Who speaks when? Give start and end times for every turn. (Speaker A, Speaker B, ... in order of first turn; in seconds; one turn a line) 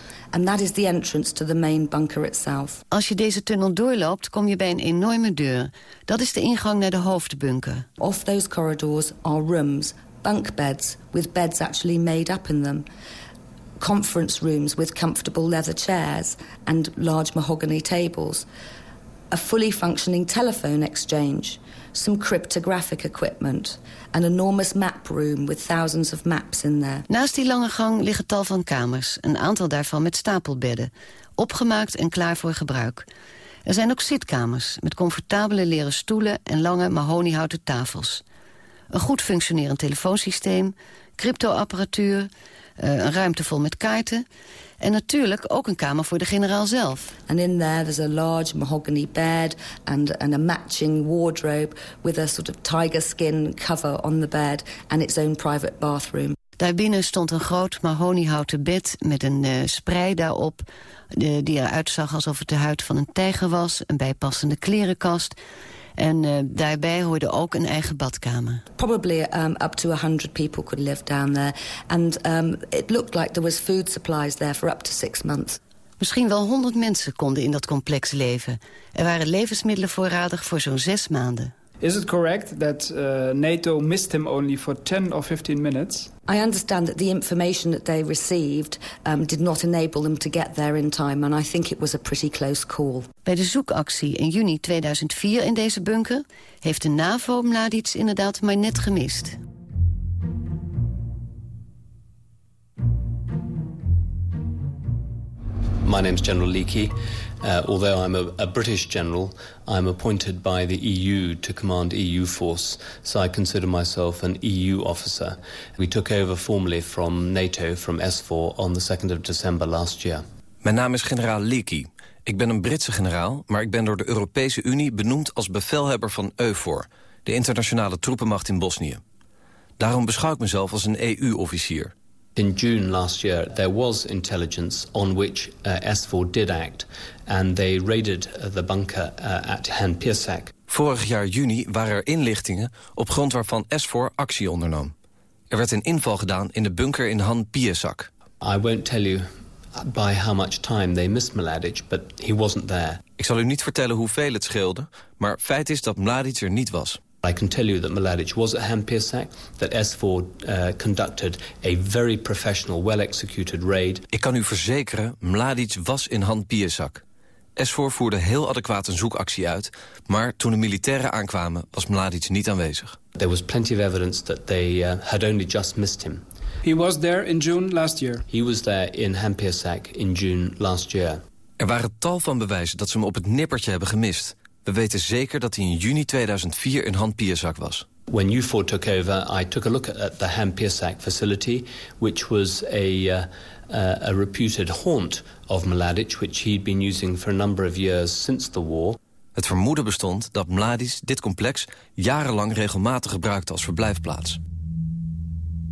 Speaker A: 0.3-2.8
Speaker B: 2.9-7.9
Speaker A: 8.0-12.9
Speaker A: 13.8-18.5
Speaker A: 19.3-27.1
Speaker B: 27.1-33.1
Speaker B: 33.7-38.2
Speaker B: 38.9-44.2
Speaker B: 44.8-47.2
Speaker A: 47.2-56.4
Speaker B: 56.6-65.4
Speaker B: 66.0-68.6
Speaker A: 68.8-75.6
Speaker B: 76.0-81.5
Speaker C: 81.8-86.1
Speaker A: 86.3-93.1
Speaker B: 93.2-99.4
Speaker D: 105.8-120.2
Speaker E: 120.6-129.0
Speaker E: 129.8-131.9
Speaker D: 132.4-140.5
Speaker E: 140.7-144.9
Speaker E: 145.5-148.1
Speaker D: 148.4-153.1
Speaker E: 153.2-157.0
Speaker D: 157.2-164.0
Speaker E: 164.1-167.0
Speaker E: 167.6-173.0
Speaker D: 173.2-176.2
Speaker C: 176.6-178.2
Speaker D: 178.3-181.2
Speaker E: 181.6-187.9
Speaker D: 188.1-199.0
Speaker E: 199.4-204.4